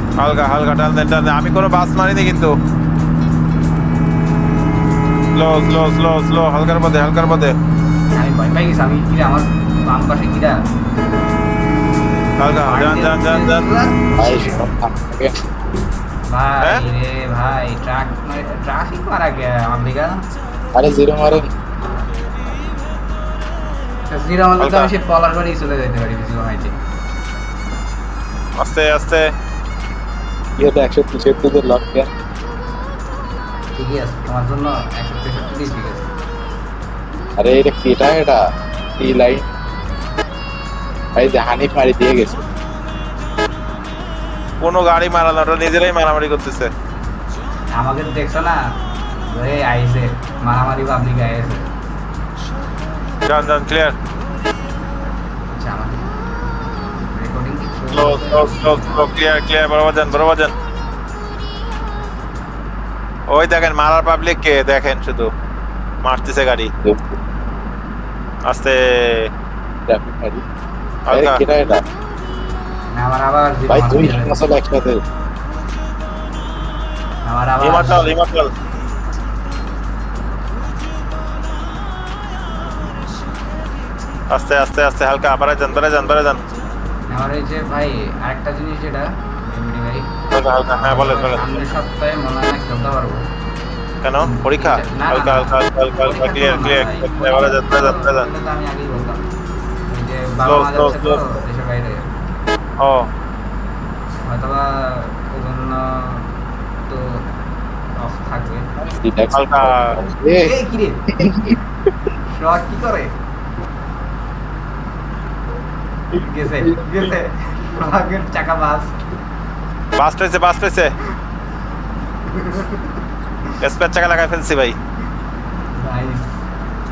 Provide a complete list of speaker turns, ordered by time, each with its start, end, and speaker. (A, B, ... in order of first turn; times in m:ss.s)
0:00.2-0:02.5 A
0:05.4-0:07.5 A
0:08.2-0:10.6 B
0:12.4-0:13.6 A
0:12.6-0:14.6 B
0:14.2-0:15.3 C
0:16.3-0:20.2 B
0:20.7-0:21.5 C
0:24.1-0:26.7 B
0:24.6-0:24.9 A
0:28.6-0:29.2 A
0:30.6-0:32.1 C
0:33.7-0:36.1 B
0:37.4-0:38.4 C
0:39.0-0:39.5 C
0:41.2-0:42.5 C
0:44.6-0:46.7 A
0:47.8-0:48.6 B
0:49.2-0:51.7 B
0:53.3-0:53.9 A
0:55.5-0:56.0 B
0:57.1-0:59.1 B
0:57.9-1:00.5 A
1:03.3-1:05.3 A
1:06.0-1:06.7 A
1:06.8-1:07.2 C
1:08.5-1:09.3 A
1:09.9-1:10.4 C
1:11.1-1:11.4 A
1:11.1-1:11.8 C
1:12.9-1:14.4 B
1:13.7-1:15.0 C
1:17.2-1:18.1 B
1:17.6-1:18.5 A
1:24.3-1:26.4 A
1:27.1-1:30.1 B
1:30.3-1:31.6 A
1:30.7-1:33.2 B
1:34.0-1:38.3 A
1:34.2-1:39.2 B
1:39.9-1:42.1 B
1:40.4-1:41.2 A
1:42.8-1:43.1 A
1:44.2-1:46.3 B
1:46.9-1:47.2 B
1:48.0-1:48.7 B
1:48.8-1:50.5 C
1:49.3-1:49.8 A
1:50.4-1:51.0 B
1:51.2-1:51.6 C
1:52.3-1:53.1 B
1:56.1-1:59.0 B
1:56.2-1:57.1 C
2:00.0-2:00.9 A
2:02.2-2:03.6 B
2:03.6-2:04.8 A
2:05.8-2:06.4 B